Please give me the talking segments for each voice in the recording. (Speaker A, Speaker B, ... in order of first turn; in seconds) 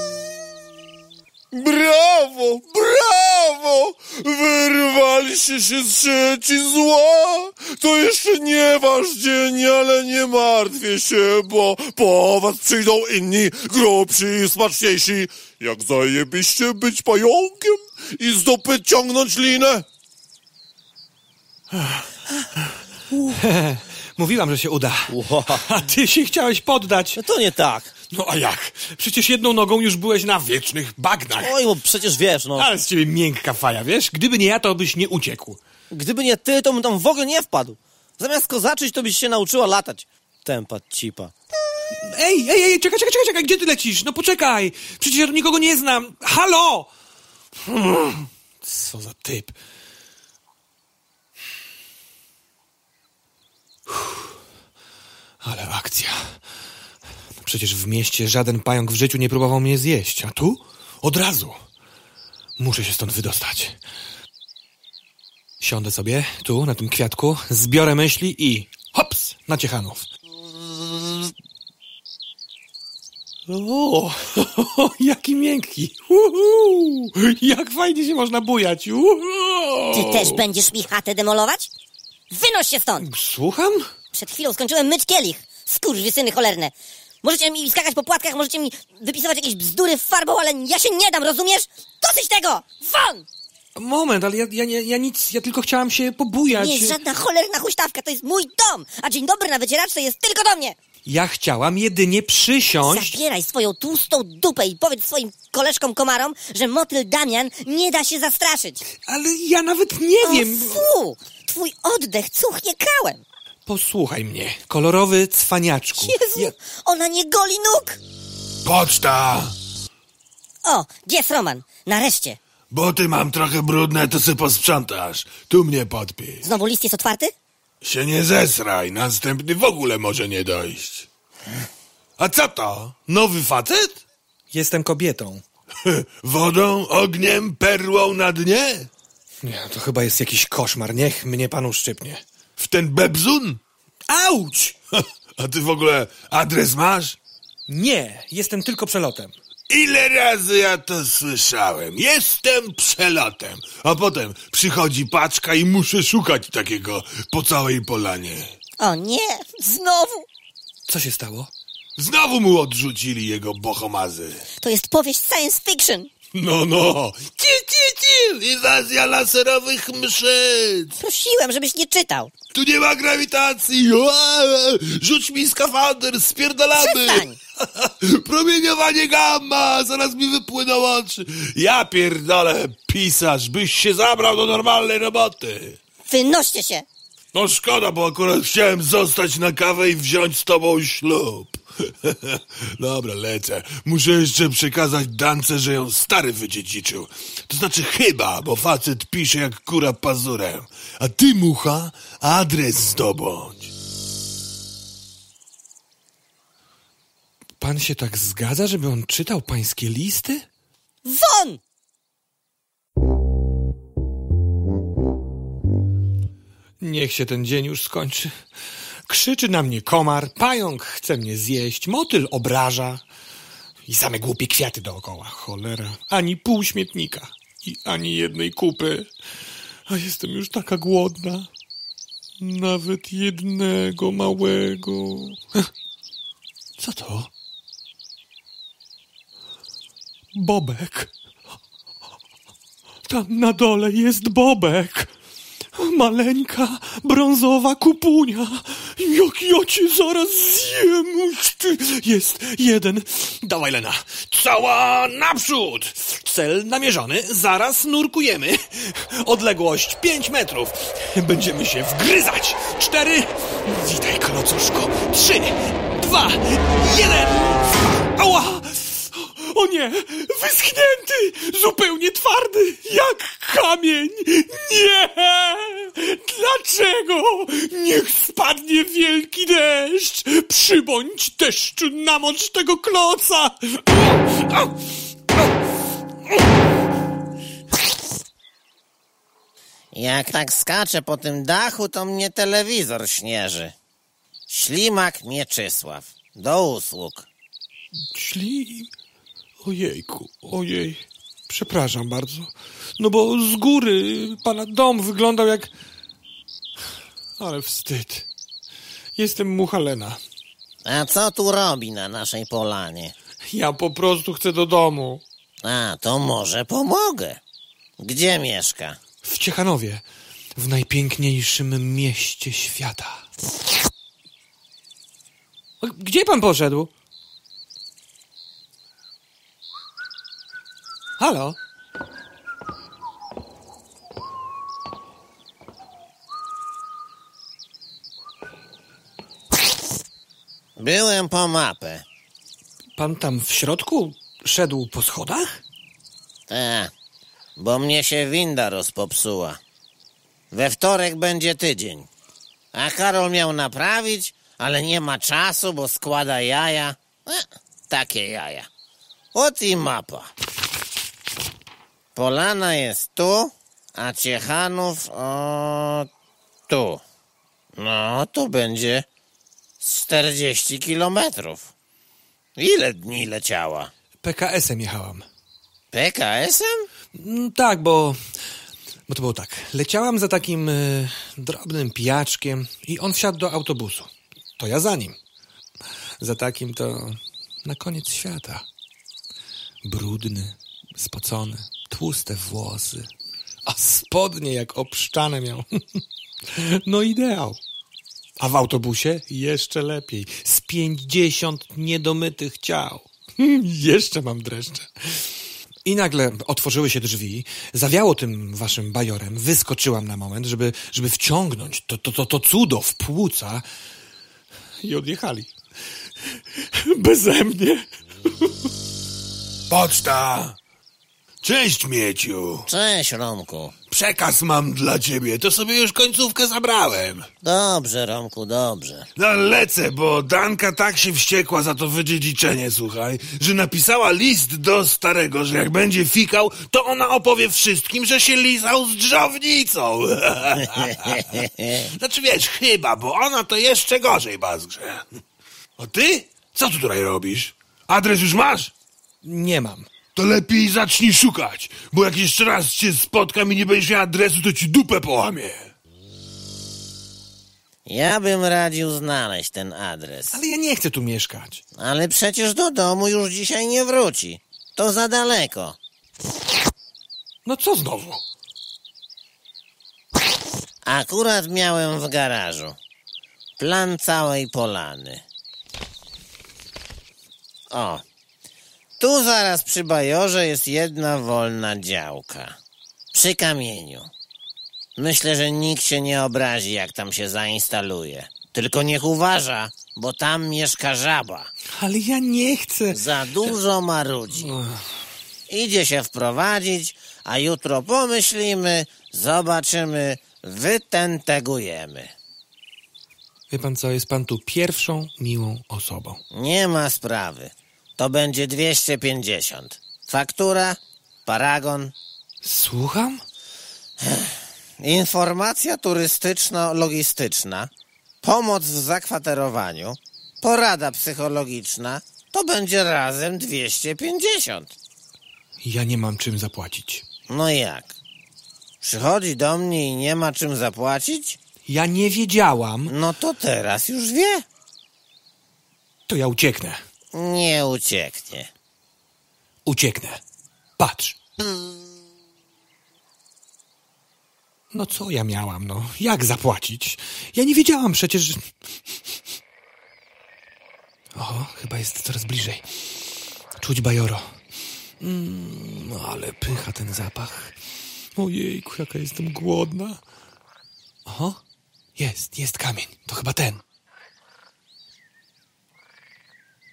Speaker A: 1.5-19.8
Speaker B: 21.7-22.1, 23.3-27.2, 28.1-31.6, 32.5-35.6, 42.0-46.9, 47.7-49.5, 53.9-54.2, 55.4-56.4, 57.4-61.6, 62.6-63.8, 65.6-70.1, 73.5-80.4, 83.0-83.9, 93.8-97.0, 101.0-103.2, 109.0-110.8, 113.7-116.5, 134.5-135.4, 139.4-142.2, 144.1-144.8, 147.7-149.3, 160.9-161.5, 207.6-210.4, 216.8-218.3, 219.1-223.0, 223.8-229.1, 229.9-231.5, 232.4-235.6, 236.8-237.3, 240.3-241.1, 243.1-245.1, 245.7-284.6, 298.1-298.9, 299.6-305.7, 307.4-308.2, 309.1-310.2, 313.5-315.2, 319.2-320.0, 320.6-323.2, 325.8-326.9, 331.2-331.6, 343.0-345.6, 374.2-375.2, 377.1-378.2, 379.1-385.2, 386.2-388.6, 389.8-393.1, 393.6-396.0, 396.6-397.6, 398.4-405.3, 405.8-413.6, 414.8-415.5, 416.6-417.9, 449.2-449.9, 460.3-461.6, 467.4-468.2, 491.8-493.5, 494.4-494.8, 503.5-506.2, 512.4-513.2, 525.6-527.0, 531.6-532.9, 536.1-536.8, 539.6-540.2, 540.8-541.2, 544.7-548.5, 551.1-552.7, 553.6-554.3, 555.0-557.5, 558.1-560.0, 561.0-561.4, 562.0-563.6
Speaker C: 25.1-25.5, 27.2-27.9, 31.4-32.7, 35.9-41.3, 289.9-293.7, 294.5-297.2, 310.8-313.1, 315.6-317.4, 318.0-319.0, 340.8-342.0, 346.5-346.9, 347.6-349.6, 350.5-352.1, 352.7-358.7, 359.3-360.3, 362.1-366.1, 366.7-367.0, 367.8-369.0, 369.8-371.7, 372.6-373.9, 375.9-376.9, 422.7-423.7, 427.4-429.1, 457.9-460.4, 461.8-465.8, 470.8-472.8, 473.6-475.2, 477.7-478.0, 479.0-482.6, 483.1-484.1, 485.0-491.5, 492.9-494.5, 495.5-502.1, 506.3-511.9, 514.0-517.7, 518.2-524.7, 527.3-527.9, 528.8-531.4, 532.9-534.4, 537.1-538.5
Speaker D: 79.9-81.7, 82.3-83.1, 84.1-93.2, 96.5-100.8, 102.8-108.8, 110.2-113.2, 116.0-118.0, 120.6-122.4, 126.4-127.3, 158.8-160.2, 164.6-166.1, 171.0-172.3, 176.8-177.4, 186.1-186.8, 211.0-211.6
Speaker E: 118.6-119.5, 122.7-126.5, 127.8-131.1, 132.2-134.0, 135.8-138.9, 142.6-143.6, 145.4-147.2, 149.7-158.5, 162.0-164.4, 166.3-170.9, 172.5-185.8, 187.3-203.7, 419.7-420.6, 421.4-422.6, 423.9-427.3, 429.2-445.0, 445.8-448.7, 450.1-455.7